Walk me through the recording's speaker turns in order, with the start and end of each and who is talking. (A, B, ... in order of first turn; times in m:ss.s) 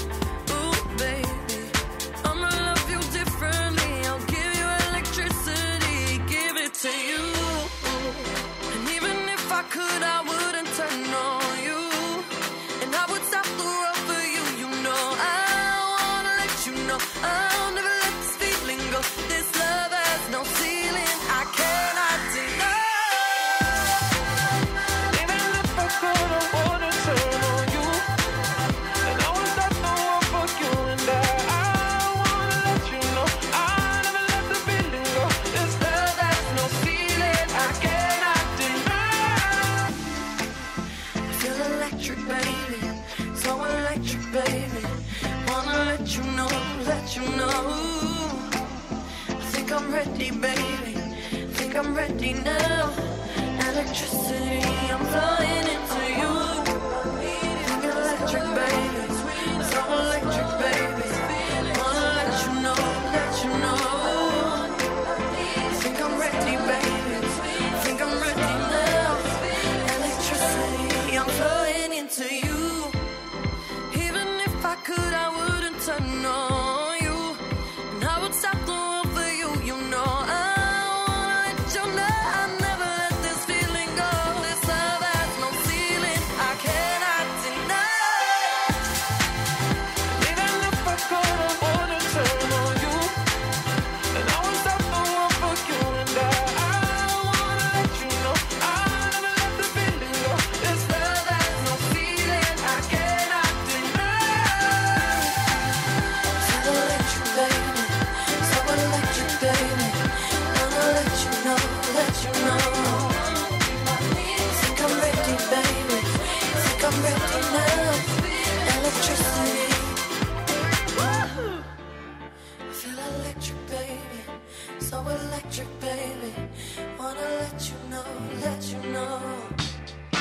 0:00.4-0:23.6 A
0:25.1-0:28.1 A
0:29.0-0:39.9 A
0:41.3-0:48.6 A
0:49.4-1:13.0 A
1:13.9-1:28.7 A
1:30.2-1:33.2 A
1:34.1-1:45.4 A
1:46.4-2:00.1 A
2:00.9-2:01.7 A
2:02.7-2:09.6 A